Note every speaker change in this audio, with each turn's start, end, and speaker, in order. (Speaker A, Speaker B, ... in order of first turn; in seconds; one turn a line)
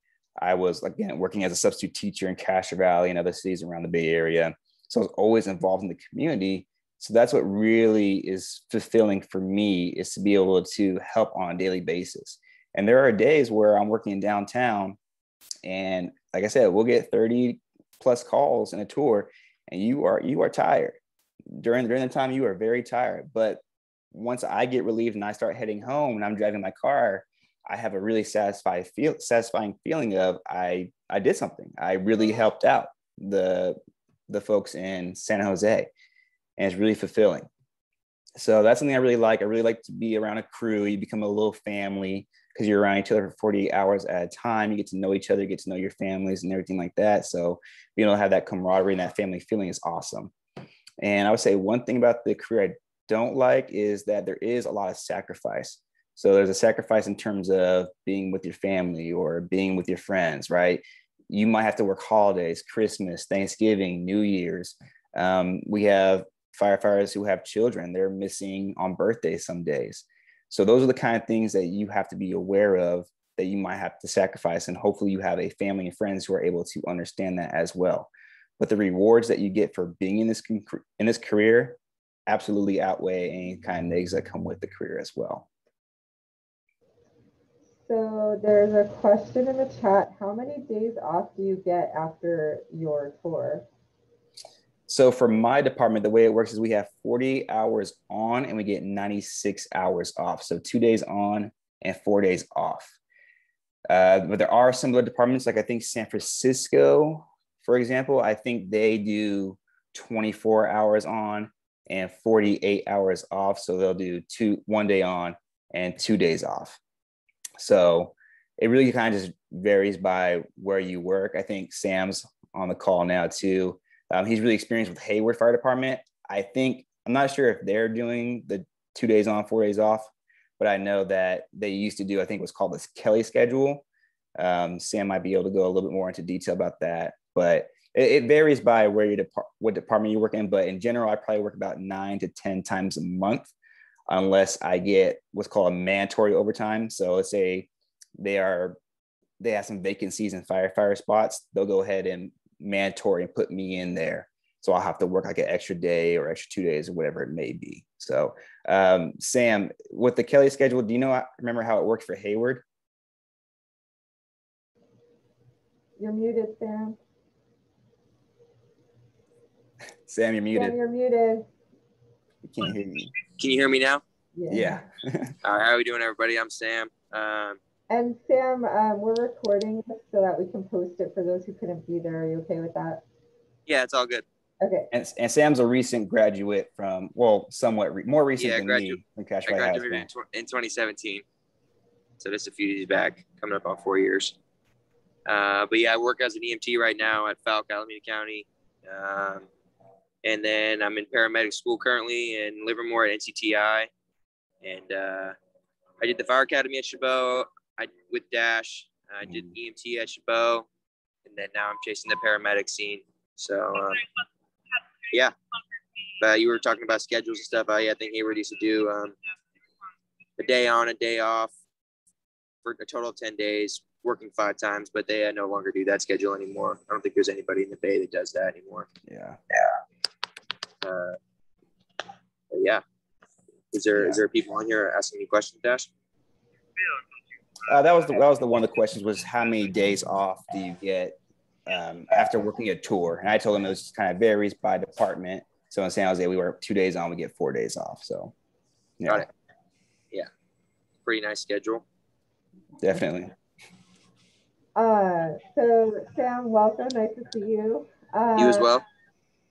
Speaker A: 0.4-15.0
Speaker A: 15.7-21.0
Speaker A: 21.6-23.6
Speaker A: 24.1-33.8
Speaker A: 34.3-35.9
Speaker A: 36.6-37.5
Speaker A: 38.4-50.3
Speaker A: 51.0-85.5
Speaker B: 87.8-93.7
Speaker A: 94.9-103.0
Speaker A: 103.9-116.8
Speaker A: 117.6-133.8
Speaker A: 134.4-143.5
Speaker A: 144.1-147.7
Speaker A: 148.2-148.8
Speaker A: 149.4-162.6
Speaker B: 166.0-167.0
Speaker A: 170.1-170.8
Speaker B: 170.5-171.5
Speaker A: 172.4-173.1
Speaker C: 173.4-174.0
Speaker B: 174.3-174.9
Speaker A: 174.5-175.3
Speaker C: 175.4-177.6
Speaker B: 177.9-183.0
Speaker C: 183.7-184.2
Speaker B: 184.6-184.9
Speaker A: 184.9-190.1
Speaker C: 188.4-191.2
Speaker C: 192.2-194.4
Speaker C: 195.3-199.5
Speaker C: 200.2-203.9
Speaker C: 204.6-205.3
Speaker C: 206.0-210.7
Speaker A: 209.3-209.5
Speaker C: 211.3-214.1
Speaker C: 216.2-219.2
Speaker C: 220.4-221.5
Speaker C: 222.7-228.9
Speaker A: 229.1-229.4
Speaker C: 230.8-231.2
Speaker C: 232.5-232.8
Speaker C: 233.7-235.9
Speaker A: 234.0-234.2
Speaker A: 237.6-248.3
Speaker A: 249.0-249.3
Speaker C: 251.1-251.8
Speaker A: 252.8-253.3
Speaker B: 254.8-258.7
Speaker C: 258.4-258.9